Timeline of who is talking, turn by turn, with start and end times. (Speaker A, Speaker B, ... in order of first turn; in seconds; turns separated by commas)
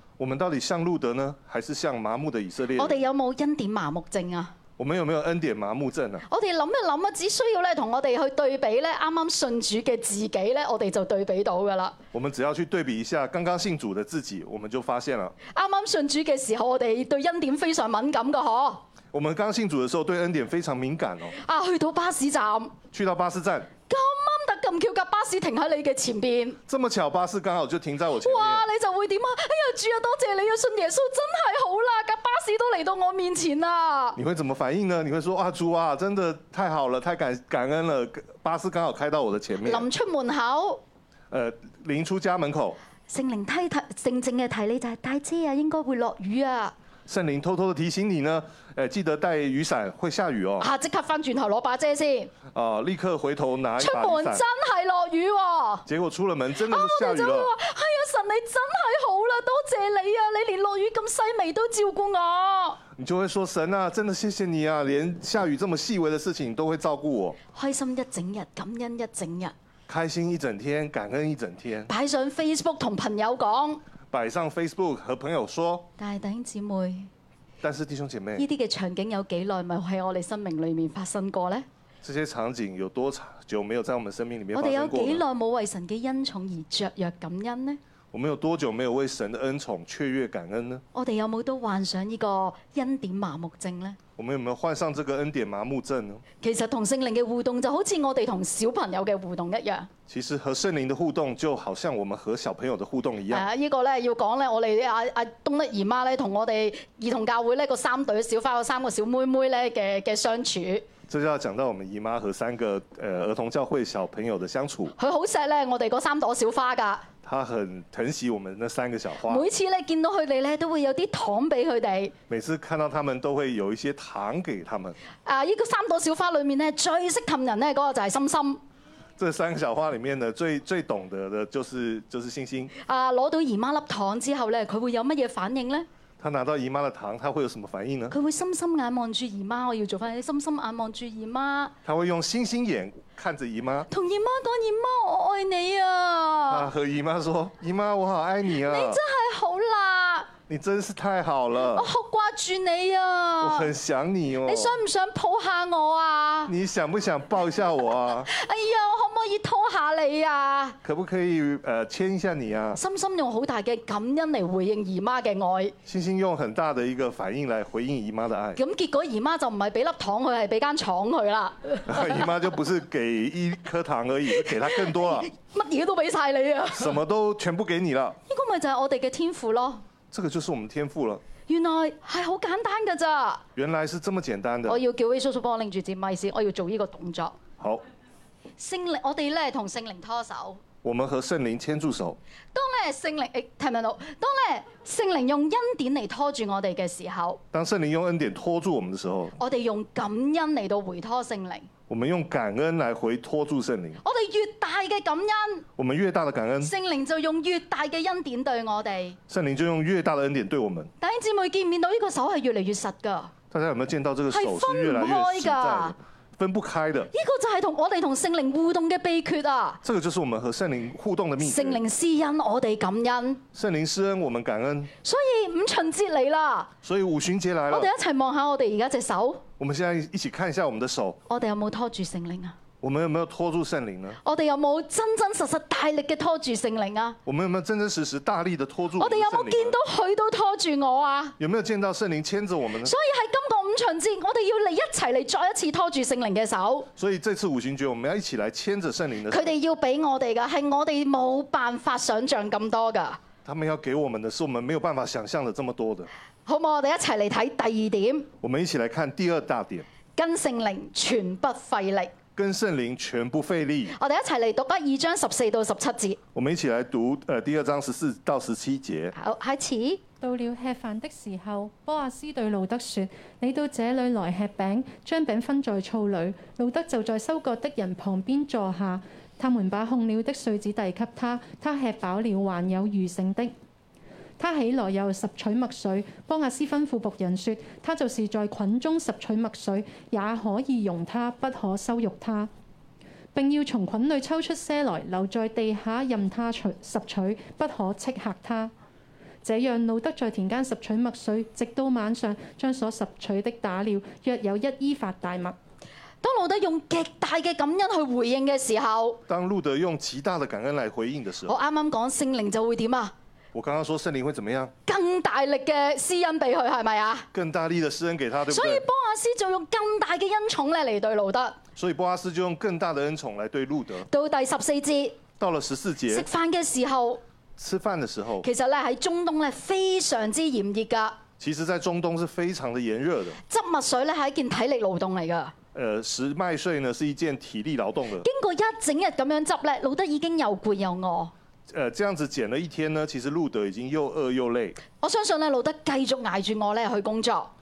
Speaker A: 0.2-3.0, Speaker B: 2.8-4.5, Speaker A: 4.8-6.2, Speaker B: 6.3-12.0, Speaker A: 12.1-15.3, Speaker B: 15.5-18.9, Speaker A: 19.1-21.4, Speaker B: 21.4-22.8, Speaker A: 22.9-23.7, Speaker B: 23.9-26.6, Speaker A: 26.7-28.6, Speaker B: 28.2-34.2, Speaker A: 34.2-39.9, Speaker B: 39.6-40.8, Speaker A: 41.3-42.8, Speaker B: 43.1-46.8, Speaker A: 47.1-50.7, Speaker B: 50.6-52.3, Speaker A: 52.5-54.4, Speaker B: 53.8-55.9, Speaker A: 55.9-57.5, Speaker B: 56.6-62.8, Speaker A: 63.0-67.4, Speaker B: 67.5-69.5, Speaker A: 69.9-71.9, Speaker B: 71.9-73.8, Speaker A: 74.1-75.9, Speaker B: 76.0-77.1, Speaker A: 77.6-78.5, Speaker B: 78.4-81.7, Speaker A: 82.0-85.2, Speaker B: 84.5-87.8, Speaker A: 88.1-90.8, Speaker B: 90.9-94.0, Speaker A: 94.2-96.2, Speaker B: 96.4-99.9, Speaker A: 100.1-103.5, Speaker B: 103.3-110.9, Speaker A: 111.1-114.9, Speaker B: 115.0-117.0, Speaker A: 117.2-119.5, Speaker B: 119.2-122.1, Speaker A: 122.3-125.0, Speaker B: 125.2-128.6, Speaker A: 129.2-132.7, Speaker B: 132.8-135.9, Speaker A: 136.2-138.1, Speaker B: 138.1-141.7, Speaker A: 141.8-143.9, Speaker B: 143.9-146.7, Speaker A: 146.5-149.0, Speaker B: 148.5-150.3, Speaker A: 150.5-151.9, Speaker B: 151.7-153.7, Speaker A: 153.4-154.8, Speaker B: 154.4-156.5, Speaker A: 156.5-158.3, Speaker B: 158.3-160.8, Speaker A: 160.8-162.8, Speaker B: 162.8-165.8, Speaker A: 165.9-168.6, Speaker B: 168.6-172.3, Speaker A: 171.9-175.3, Speaker B: 174.4-177.0, Speaker A: 176.8-178.2, Speaker B: 178.3-179.8, Speaker A: 180.1-181.2, Speaker B: 181.5-183.4, Speaker A: 183.6-184.8, Speaker B: 184.7-187.4, Speaker B: 188.6-190.6, Speaker A: 190.8-192.2, Speaker B: 192.5-197.4, Speaker A: 197.5-199.3, Speaker B: 199.4-201.7, Speaker A: 201.9-204.0, Speaker B: 204.0-205.6, Speaker A: 205.8-206.7, Speaker B: 206.6-209.2, Speaker A: 209.3-210.9, Speaker B: 211.0-213.3, Speaker A: 213.5-217.1, Speaker B: 214.3-215.9, Speaker B: 217.1-219.8, Speaker A: 219.8-221.8, Speaker B: 221.4-223.4, Speaker A: 223.5-224.9, Speaker B: 225.0-226.7, Speaker A: 226.8-227.9, Speaker B: 227.7-229.4, Speaker A: 229.6-231.2, Speaker B: 231.3-232.6, Speaker A: 232.8-234.2, Speaker B: 234.2-237.2, Speaker A: 237.3-239.8, Speaker B: 239.0-241.4, Speaker A: 241.4-242.9, Speaker B: 242.8-246.9, Speaker A: 247.0-249.5, Speaker B: 249.3-253.2, Speaker A: 253.4-256.1, Speaker B: 256.4-258.3, Speaker A: 258.4-259.9, Speaker B: 260.1-262.1, Speaker A: 262.4-263.9, Speaker B: 263.9-266.2, Speaker A: 266.4-269.1, Speaker B: 269.1-270.0, Speaker C: 270.2-283.5, Speaker C: 284.4-292.5, Speaker C: 293.3-298.7, Speaker C: 299.4-305.6, Speaker B: 306.2-309.2, Speaker A: 309.3-311.6, Speaker B: 311.5-313.1, Speaker A: 313.5-314.7, Speaker B: 314.9-317.3, Speaker A: 317.3-318.8, Speaker B: 318.5-321.6, Speaker A: 321.8-324.1, Speaker B: 324.1-325.2, Speaker A: 325.4-326.3, Speaker B: 326.1-327.2, Speaker A: 327.6-328.5, Speaker B: 328.4-331.2, Speaker A: 331.4-333.4, Speaker B: 333.5-335.5, Speaker A: 335.7-338.3, Speaker B: 338.2-341.3, Speaker A: 341.7-344.8, Speaker B: 345.0-347.5